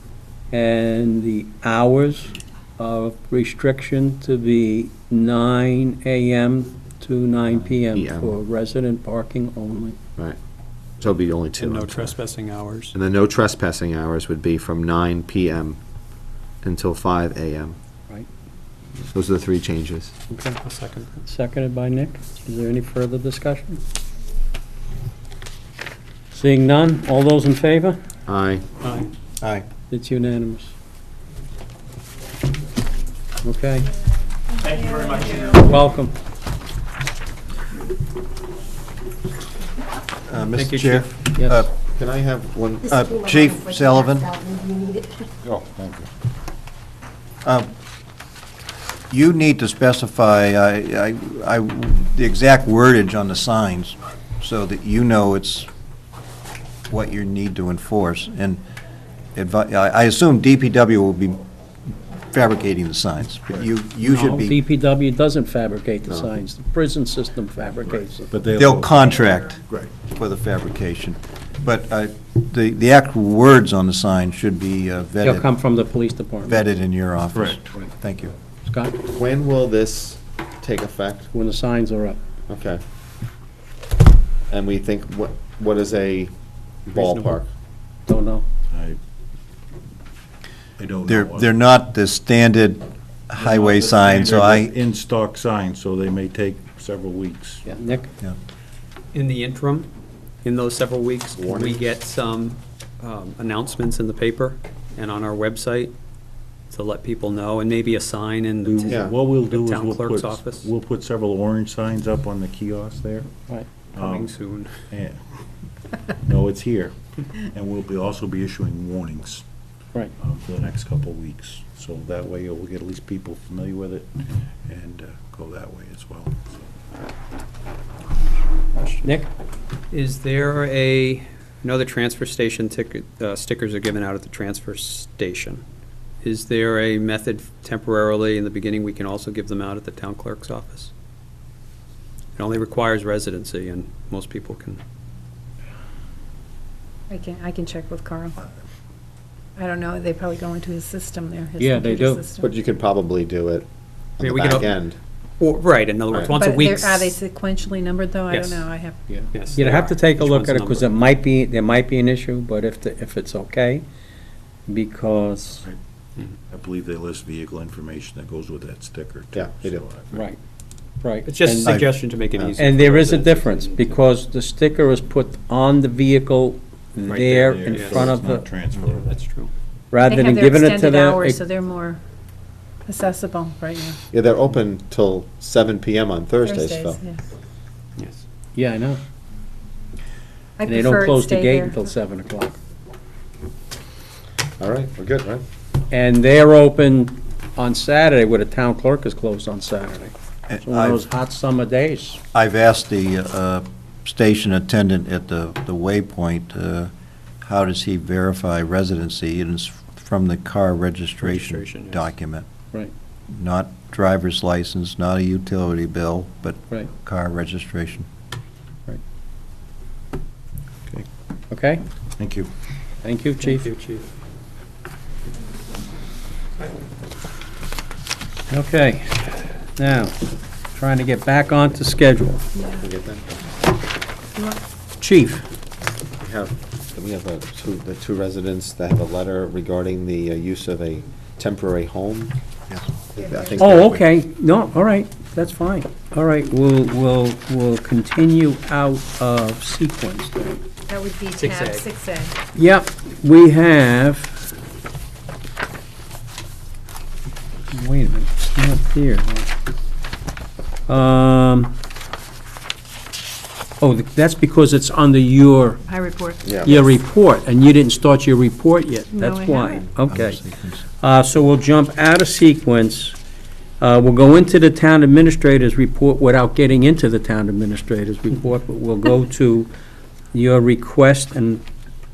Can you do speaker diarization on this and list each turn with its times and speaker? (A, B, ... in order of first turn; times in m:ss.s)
0:00.5-0:10.0 A
0:07.8-0:08.4 B
0:11.0-0:12.2 B
0:11.6-0:13.0 C
0:12.9-0:15.8 B
0:16.6-0:17.8 B
0:19.1-0:20.1 B
0:20.3-0:20.6 A
0:20.6-0:21.2 C
0:21.2-0:23.8 A
0:26.3-0:28.0 A
0:28.3-0:28.6 B
0:28.8-0:29.1 C
0:29.4-0:29.7 D
0:29.9-0:30.7 A
0:33.4-0:33.9 A
0:34.8-0:35.6 E
0:34.9-0:35.2 F
0:35.5-0:36.1 A
0:40.3-0:41.7 D
0:40.5-0:41.1 C
0:41.4-0:41.7 A
0:42.0-0:43.0 B
0:42.8-0:44.5 D
0:45.4-0:46.1 E
0:49.1-0:55.7 D
0:56.9-0:58.6 D
0:59.4-1:01.4 D
1:02.3-1:04.6 D
1:04.0-1:08.3 A
1:07.9-1:09.9 E
1:08.6-1:15.5 D
1:15.2-1:16.6 A
1:16.4-1:18.3 D
1:17.3-1:17.8 E
1:18.7-1:19.0 A
1:19.1-1:21.3 B
1:21.3-1:22.2 A
1:22.5-1:22.8 B
1:24.5-1:26.3 B
1:26.8-1:27.5 B
1:26.9-1:27.3 C
1:28.1-1:28.4 A
1:28.7-1:29.0 E
1:30.8-1:31.5 E
1:31.1-1:34.7 D
1:33.4-1:37.7 E
1:37.6-1:38.1 A
1:39.1-1:39.9 C
1:40.4-1:45.9 C
1:41.4-1:41.8 B
1:46.7-1:50.7 C
1:48.6-1:53.3 E
1:48.8-1:49.2 B
1:53.9-1:54.8 C
1:54.0-1:54.3 E
1:54.9-1:55.4 E
1:56.2-1:59.4 E
2:00.2-2:04.1 E
2:04.7-2:06.6 E
2:08.8-2:09.1 C
2:09.0-2:09.3 A
2:09.9-2:15.6 C
2:16.2-2:20.9 C
2:22.4-2:24.8 C
2:27.1-2:28.4 F
2:29.6-2:32.5 F
2:31.6-2:32.2 A
2:32.4-2:33.7 B
2:34.2-2:35.0 B
2:34.2-2:34.7 C
2:35.4-2:37.2 C
2:36.1-2:36.4 B
2:36.3-2:39.0 F
2:38.3-2:38.7 C
2:39.1-2:43.8 A
2:39.3-2:40.9 C
2:44.7-2:45.6 A
2:46.4-2:50.3 E
2:49.3-2:49.8 B
2:50.1-2:50.4 A
2:51.0-2:51.8 A
2:51.3-2:53.9 C
2:52.4-2:53.3 B
2:52.6-2:58.5 A
2:57.1-2:59.2 E
2:57.7-2:58.1 C
2:59.0-2:59.5 C
2:59.9-3:01.4 A
3:00.0-3:02.0 F
3:02.8-3:04.0 F
3:04.1-3:07.0 B
3:06.4-3:07.2 F
3:08.0-3:08.2 C
3:08.6-3:09.0 A
3:10.6-3:11.8 F
3:10.7-3:12.6 A
3:14.6-3:15.4 B
3:15.9-3:22.2 A
3:20.5-3:21.0 D
3:22.3-3:26.9 D
3:27.4-3:32.5 D
3:31.2-3:32.1 C
3:33.3-3:38.1 D
3:41.5-3:41.8 A
3:42.2-3:42.5 E
3:43.0-3:43.7 A
3:43.4-3:44.1 C
3:48.5-3:50.2 A
3:50.7-3:52.5 A
3:52.6-3:52.9 F
3:52.8-3:53.3 B
3:55.0-3:55.4 A
3:56.2-4:02.4 B
4:03.1-4:04.0 B
4:03.2-4:03.8 F
4:03.6-4:10.6 A
4:10.9-4:12.4 F
4:11.4-4:11.8 C
4:12.6-4:14.4 A
4:17.7-4:19.5 A
4:20.9-4:21.7 A
4:23.8-4:25.8 A
4:25.8-4:26.9 F
4:26.4-4:26.8 B
4:26.6-4:30.4 A
4:29.1-4:29.9 F
4:30.0-4:30.8 D
4:31.0-4:33.2 A
4:33.8-4:39.7 A
4:40.3-4:41.6 A